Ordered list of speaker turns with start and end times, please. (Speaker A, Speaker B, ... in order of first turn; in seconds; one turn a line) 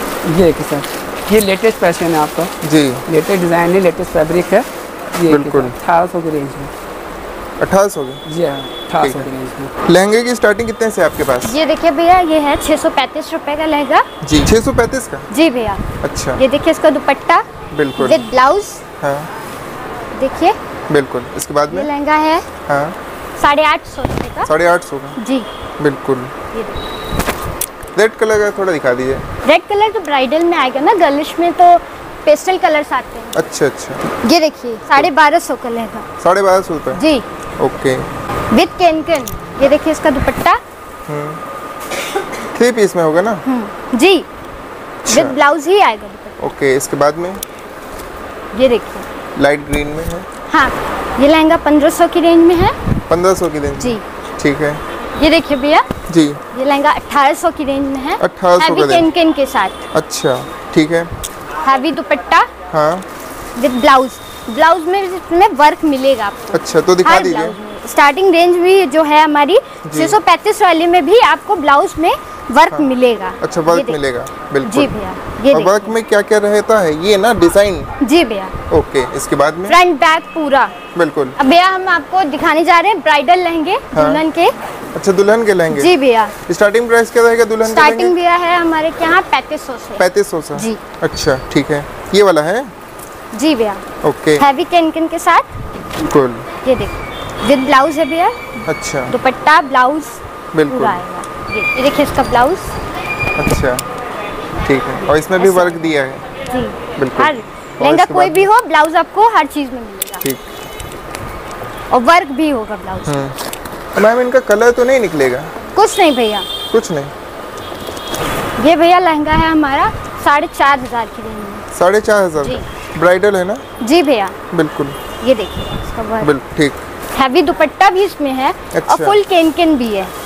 Speaker A: 0.2-2.5
Speaker B: 2.6-3.0
Speaker A: 3.1-6.7
Speaker B: 5.3-5.7
Speaker B: 7.6-8.2
Speaker A: 8.3-9.7
Speaker B: 9.0-9.3
Speaker B: 9.8-11.6
Speaker C: 11.4-14.1
Speaker B: 14.2-15.3
Speaker C: 15.3-15.8
Speaker B: 16.0-16.4
Speaker C: 16.4-17.4
Speaker B: 17.7-18.3
Speaker C: 18.0-18.8
Speaker B: 19.0-19.3
Speaker C: 20.1-20.6
Speaker B: 20.9-21.9
Speaker C: 21.7-22.4
Speaker B: 22.7-22.9
Speaker C: 23.4-24.5
Speaker B: 24.4-25.2
Speaker C: 25.2-25.5
Speaker B: 25.8-26.3
Speaker B: 27.9-29.2
Speaker C: 29.4-33.4
Speaker B: 33.3-34.0
Speaker C: 34.2-36.0
Speaker B: 36.2-37.0
Speaker C: 36.9-37.2
Speaker B: 37.6-38.1
Speaker C: 38.5-40.6
Speaker B: 41.1-41.4
Speaker B: 42.5-43.4
Speaker C: 43.5-44.3
Speaker B: 45.0-45.4
Speaker C: 45.1-46.5
Speaker B: 46.4-47.4
Speaker C: 48.5-49.1
Speaker B: 49.4-50.3
Speaker C: 50.5-52.8
Speaker B: 53.1-54.8
Speaker C: 53.8-54.0
Speaker C: 55.2-55.9
Speaker B: 56.1-56.4
Speaker C: 56.5-59.9
Speaker B: 58.2-59.1
Speaker B: 59.9-61.1
Speaker C: 61.6-62.5
Speaker B: 62.7-63.0
Speaker C: 63.5-74.0
Speaker B: 66.5-67.6
Speaker B: 69.8-70.2
Speaker B: 73.4-74.9
Speaker C: 74.6-75.9
Speaker B: 75.5-77.9
Speaker C: 78.0-78.5
Speaker B: 78.7-79.8
Speaker C: 79.7-80.7
Speaker B: 80.9-81.3
Speaker C: 81.4-84.5
Speaker B: 83.9-84.2
Speaker B: 84.9-85.9
Speaker C: 85.7-86.3
Speaker B: 86.5-88.2
Speaker C: 87.6-90.8
Speaker B: 90.0-92.7
Speaker C: 93.3-93.8
Speaker B: 94.0-94.4
Speaker C: 94.4-95.5
Speaker B: 96.0-96.5
Speaker C: 96.6-98.6
Speaker B: 98.7-99.1
Speaker C: 99.1-102.7
Speaker B: 100.5-101.0
Speaker B: 103.3-103.8
Speaker B: 104.6-106.2
Speaker C: 105.4-105.9
Speaker C: 106.5-110.2
Speaker B: 107.0-108.5
Speaker B: 110.2-110.5
Speaker C: 111.9-113.2
Speaker B: 113.0-113.4
Speaker B: 113.9-115.5
Speaker C: 115.7-116.5
Speaker B: 116.7-117.1
Speaker C: 118.6-121.6
Speaker B: 121.7-123.6
Speaker C: 123.8-124.3
Speaker B: 124.5-125.0
Speaker C: 125.2-126.3
Speaker B: 126.2-126.8
Speaker C: 127.1-130.1
Speaker B: 128.7-129.2